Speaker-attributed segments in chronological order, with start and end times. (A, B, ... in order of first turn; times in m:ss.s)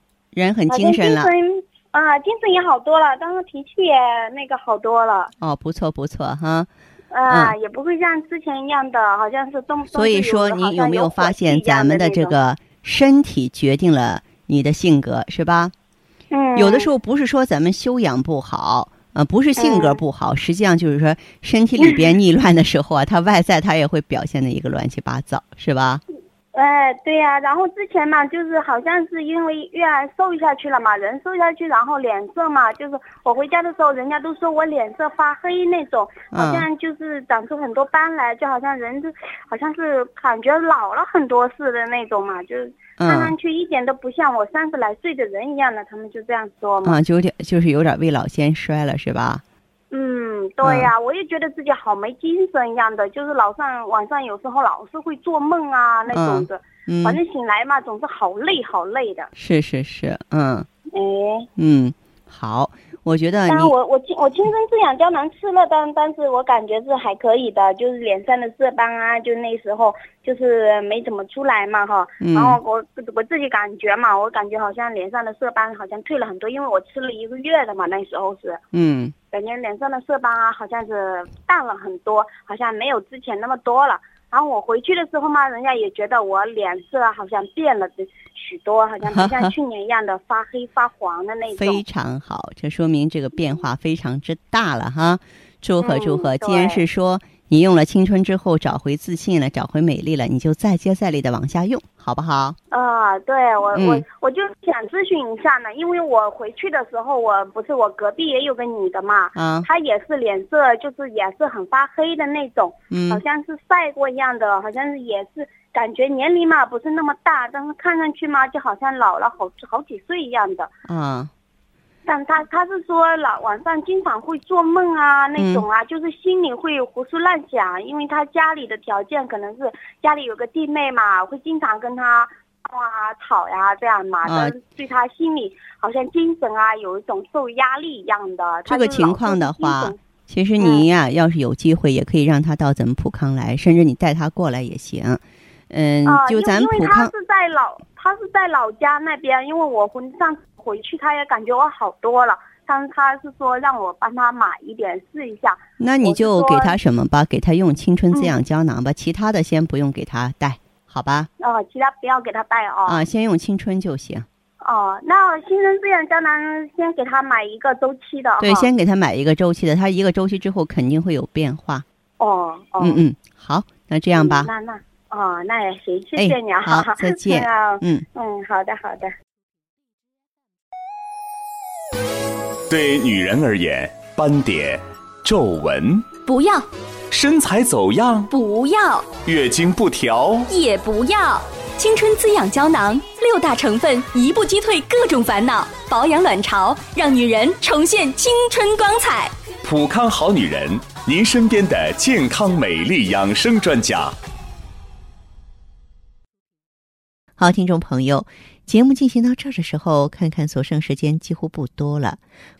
0:00.3-0:01.3 A
0:00.7-0:05.3 B
0:05.4-0:06.7 A
0:07.1-0:12.3 B
0:07.3-0:07.5 A
0:09.9-0:15.7 A
0:16.3-0:16.9 B
0:16.5-0:26.0 A
0:19.6-0:20.0 B
0:26.5-0:47.0 B
0:36.3-0:36.7 A
0:43.0-0:43.3 A
0:46.8-0:49.4 A
0:49.9-0:59.3 B
0:50.6-0:50.9 A
0:56.1-0:57.2 A
0:59.4-1:00.7 A
1:00.9-1:01.5 B
1:01.6-1:03.7 A
1:03.5-1:18.6 B
1:12.2-1:12.6 A
1:18.7-1:19.1 A
1:19.3-1:31.8 B
1:29.1-1:29.5 A
1:31.5-1:42.6 A
1:35.8-1:36.8 B
1:42.7-2:00.7 B
1:43.7-1:44.0 A
1:49.3-1:49.7 A
1:52.9-1:53.2 A
2:00.9-2:01.3 A
2:02.0-2:20.0 B
2:05.4-2:05.6 A
2:14.2-2:14.5 A
2:18.7-2:27.1 A
2:20.6-2:20.9 B
2:26.0-2:36.8 B
2:35.8-2:41.3 A
2:41.4-2:43.0 B
2:42.8-2:44.3 A
2:44.6-2:48.7 B
2:48.4-2:51.8 A
2:52.2-2:53.0 B
2:52.8-2:54.5 A
2:54.2-2:59.1 B
2:56.2-2:58.0 A
3:02.7-3:06.1 C
3:06.2-3:06.7 D
3:07.1-3:08.3 C
3:08.3-3:09.1 D
3:09.2-3:10.5 C
3:10.5-3:19.3 D
3:19.6-3:24.2 C
3:27.4-3:32.2 A